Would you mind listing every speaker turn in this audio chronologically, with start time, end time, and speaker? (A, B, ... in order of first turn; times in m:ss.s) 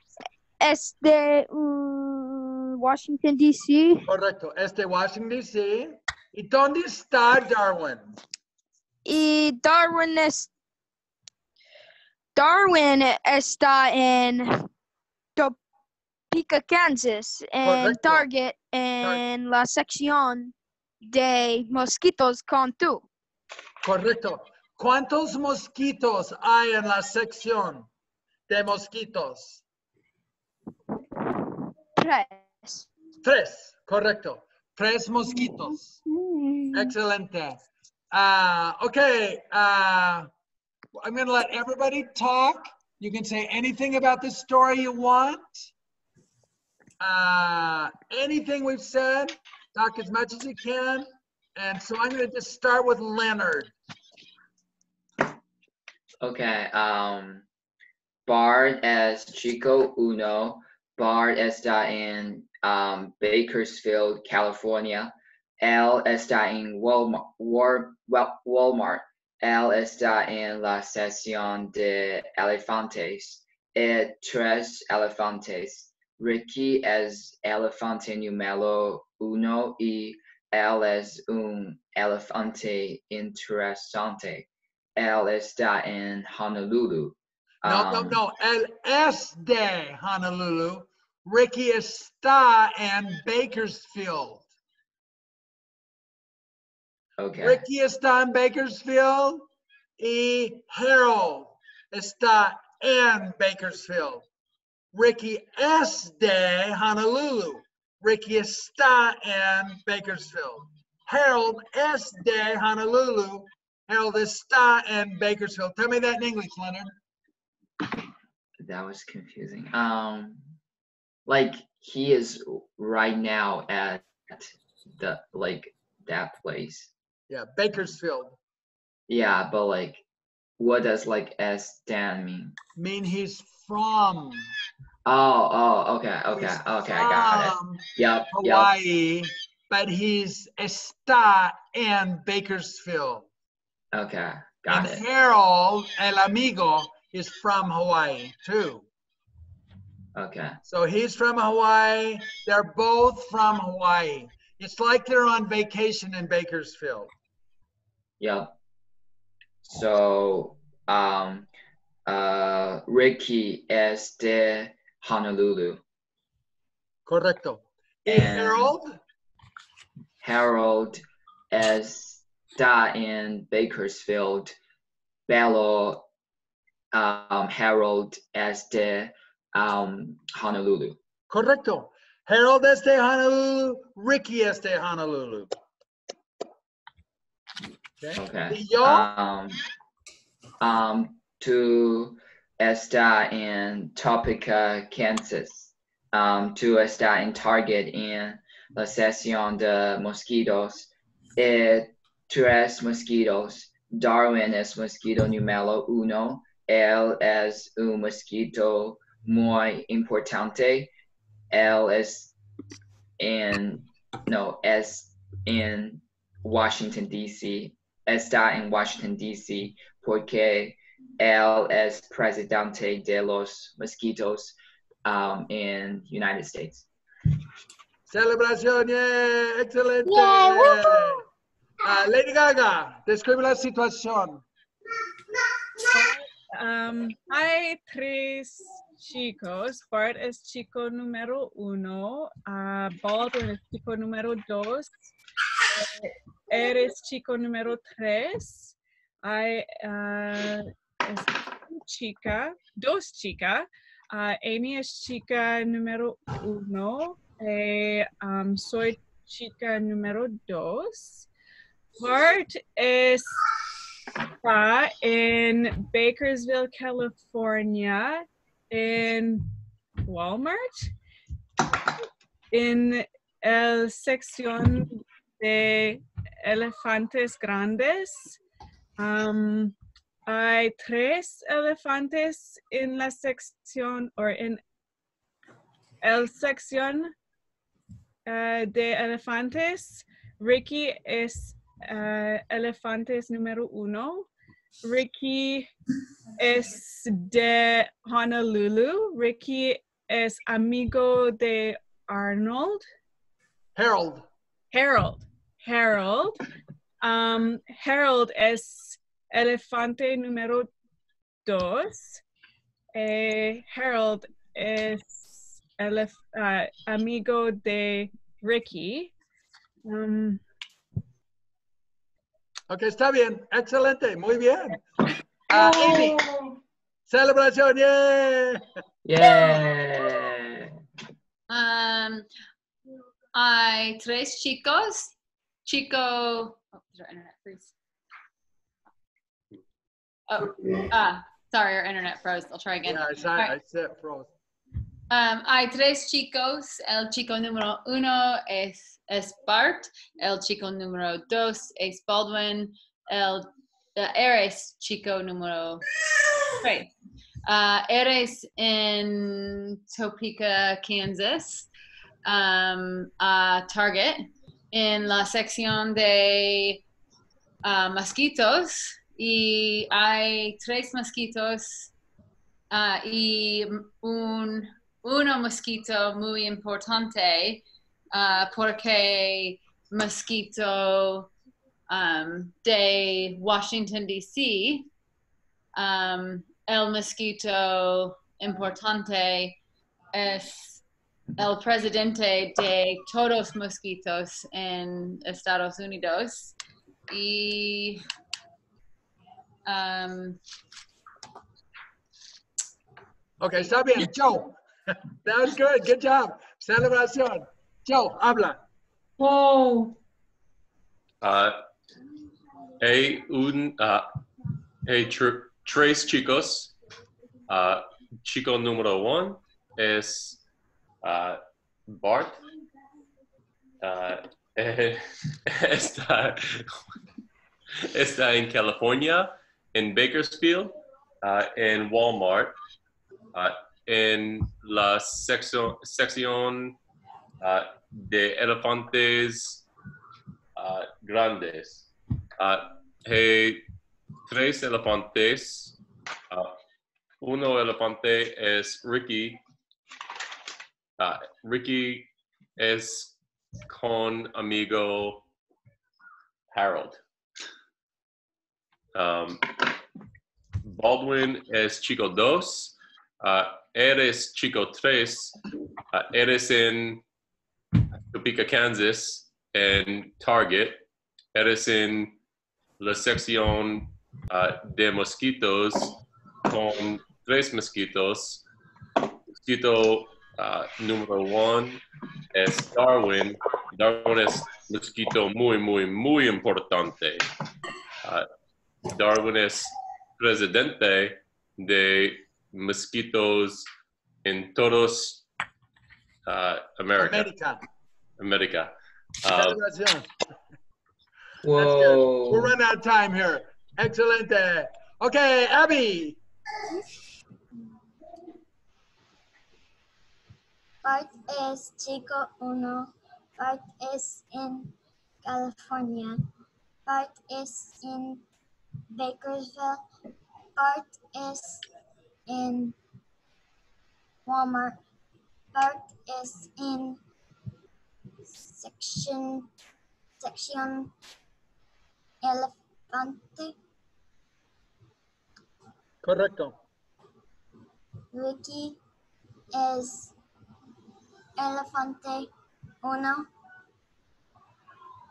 0:00.6-0:04.0 A
0:04.1-0:08.2 B
0:09.0-0:10.5 A
0:12.3-0:14.5 A
0:16.3-0:23.0 A
0:17.6-0:18.3 B
0:23.8-0:27.9 B
0:28.5-0:29.6 B
0:32.0-0:32.9 A
0:33.2-0:35.9 B
0:36.1-0:36.7 A
0:36.7-0:37.6 B
0:38.1-0:40.3 B
0:40.9-0:45.6 B
0:47.0-0:53.7 B
0:56.2-0:57.4 C
0:58.2-1:28.2 C
1:27.6-1:34.5 B
1:37.2-1:37.6 C
1:37.4-1:39.5 B
1:40.0-1:44.2 B
1:44.9-1:56.9 B
1:58.6-2:00.5 C
2:01.2-2:06.9 C
2:07.3-2:08.4 B
2:09.1-2:10.0 C
2:10.6-2:12.5 C
2:12.8-2:14.5 B
2:15.0-2:18.7 C
2:16.3-2:23.3 B
2:23.9-2:25.0 C
2:24.7-2:28.8 B
2:30.1-2:30.6 C
2:30.6-2:37.1 B
2:38.2-2:38.5 C
2:39.6-2:41.5 C
2:42.0-2:45.8 C
2:47.1-2:49.0 B
2:48.1-2:48.7 C
2:50.2-2:54.5 C
2:55.3-2:56.1 C
2:56.9-3:01.0 C
3:01.3-3:05.5 B
3:08.0-3:09.1 B
3:08.2-3:09.6 C
3:10.6-3:30.9 C
3:31.5-3:32.3 C
3:33.2-3:46.8 C
3:48.1-3:51.2 B
3:50.0-3:51.2 D
3:51.8-3:54.4 B
3:55.9-4:05.0 E
4:05.7-4:21.3 E
4:22.0-4:23.3 E
4:24.4-4:29.5 E
4:30.0-4:30.9 E
4:32.5-4:38.4 E
4:39.0-4:39.7 E
4:40.3-4:44.6 E
4:46.0-4:47.1 E
4:48.3-4:54.3 E
4:54.8-4:55.7 E
4:56.4-5:02.8 E
5:03.8-5:04.2 B
5:04.7-5:06.4 E
5:07.0-5:10.7 E
5:11.4-5:12.2 E
5:12.9-5:19.1 E
5:19.8-5:20.4 E
5:22.7-5:24.8 B
5:25.5-5:26.2 B
5:25.5-5:26.5 D
5:27.1-5:28.6 B
5:29.0-5:30.7 C
5:31.5-5:32.3 F
5:33.3-5:37.7 F
5:40.3-5:43.6 F
5:42.8-5:44.3 B
5:45.1-5:55.8 F
5:56.6-5:56.9 F
5:57.4-6:01.7 F
6:02.2-6:06.8 F
6:07.6-6:11.9 F
6:12.7-6:21.3 F
6:21.9-6:24.9 F
6:25.7-6:29.6 F
6:30.1-6:30.8 F
6:31.4-6:36.5 F
6:37.1-6:38.0 F
6:39.6-6:40.4 F
6:43.4-6:44.6 B
6:45.2-6:48.6 B
6:49.2-6:49.9 F
6:51.2-6:51.6 G
6:52.8-6:54.0 G
6:54.8-6:56.7 G
6:57.5-7:00.4 G
7:01.0-7:02.4 G
7:03.8-7:06.8 G
7:07.9-7:12.6 G
7:13.3-7:16.8 G
7:17.4-7:19.6 G
7:20.6-7:23.6 G
7:24.3-7:25.8 G
7:26.3-7:26.6 G
7:27.2-7:29.4 G
7:31.0-7:33.2 G
7:33.7-7:35.2 G
7:36.5-7:37.0 G
7:38.9-7:39.8 G
7:40.6-7:45.4 G
7:45.9-7:47.0 G
7:48.1-7:52.2 G
7:52.8-7:55.9 G
7:56.4-7:58.4 G
7:59.4-8:01.8 G
8:02.3-8:07.3 G
8:08.9-8:13.7 G
8:14.2-8:15.2 G
8:16.2-8:17.3 G
8:17.0-8:17.6 B
8:18.2-8:18.7 G
8:19.2-8:19.6 G
8:19.3-8:20.1 B
8:21.4-8:22.5 C
8:21.6-8:26.2 B
8:30.8-8:34.7 D
8:35.2-8:36.2 D
8:36.9-8:38.2 D
8:38.9-8:39.8 D
8:40.6-8:41.6 D
8:42.3-8:42.8 D
8:44.2-8:44.8 D
8:45.5-8:47.0 D
8:48.4-8:49.5 D
8:50.2-8:50.9 D
8:52.2-8:53.5 D
8:56.0-8:56.5 B
8:58.1-8:58.8 D
8:59.5-9:00.1 D
9:01.4-9:02.3 D
9:02.8-9:03.3 D